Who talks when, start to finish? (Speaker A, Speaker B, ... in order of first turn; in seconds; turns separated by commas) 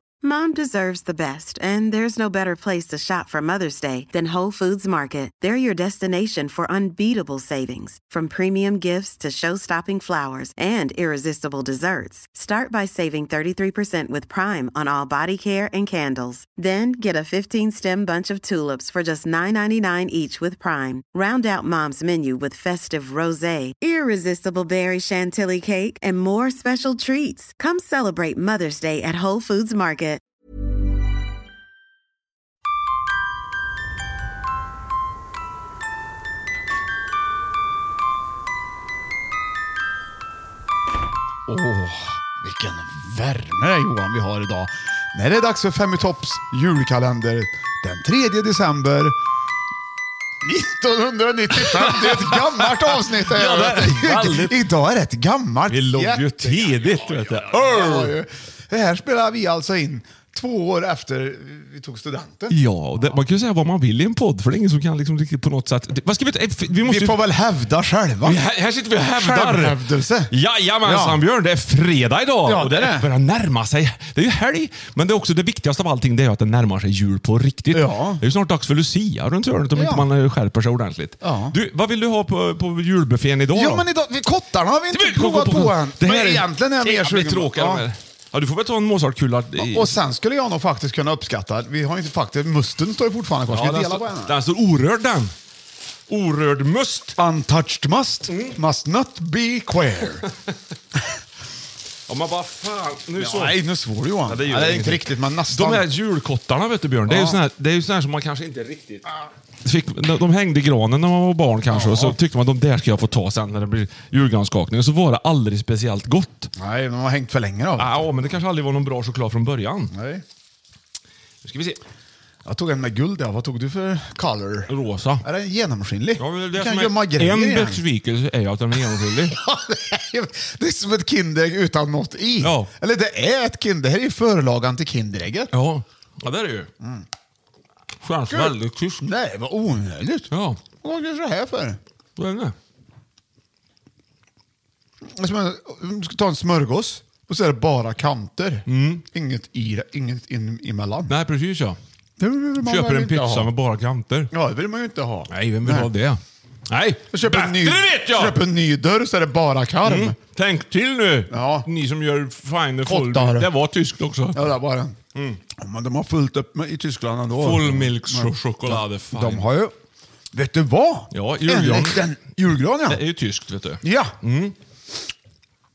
Speaker A: 0.2-30.2, Speaker B: 41.5-49.2, Speaker B: 50.4-62.6, Speaker C: 51.6-54.6, Speaker C: 55.7-58.1, Speaker C: 62.5-67.2, Speaker B: 66.8-68.4, Speaker C: 68.2-83.9, Speaker B: 69.1-71.2, Speaker B: 72.4-73.1, Speaker B: 77.7-78.2, Speaker B: 79.7-80.1, Speaker B: 81.2-81.6, Speaker B: 83.5-87.9, Speaker C: 84.9-90.0, Speaker B: 89.6-94.4, Speaker C: 93.5-95.3, Speaker C: 96.1-97.2, Speaker B: 97.2-100.3, Speaker C: 98.3-98.6, Speaker C: 102.1-103.6, Speaker B: 103.2-105.8, Speaker C: 104.3-109.1, Speaker B: 107.1-107.4, Speaker C: 109.6-116.5, Speaker B: 111.7-112.2, Speaker B: 116.6-118.0, Speaker C: 117.8-119.9, Speaker B: 119.9-120.2, Speaker C: 121.4-121.8, Speaker B: 122.5-127.8, Speaker C: 124.7-125.2, Speaker C: 126.2-129.3, Speaker B: 128.9-135.5, Speaker C: 132.4-132.7, Speaker C: 135.5-136.7, Speaker C: 138.0-139.1, Speaker B: 138.3-141.8, Speaker C: 140.3-140.6, Speaker C: 142.2-142.6, Speaker B: 145.2-151.1, Speaker C: 148.7-149.0, Speaker C: 151.1-151.8, Speaker B: 152.2-153.5, Speaker C: 152.6-154.3, Speaker B: 154.3-155.9, Speaker C: 155.3-158.4, Speaker B: 157.1-160.2, Speaker C: 159.8-164.4, Speaker B: 161.3-161.7, Speaker B: 162.9-163.5, Speaker B: 164.3-165.0, Speaker B: 165.6-169.7, Speaker C: 167.4-169.5, Speaker B: 170.3-173.0, Speaker C: 171.1-172.1, Speaker C: 172.9-174.6, Speaker B: 173.8-174.2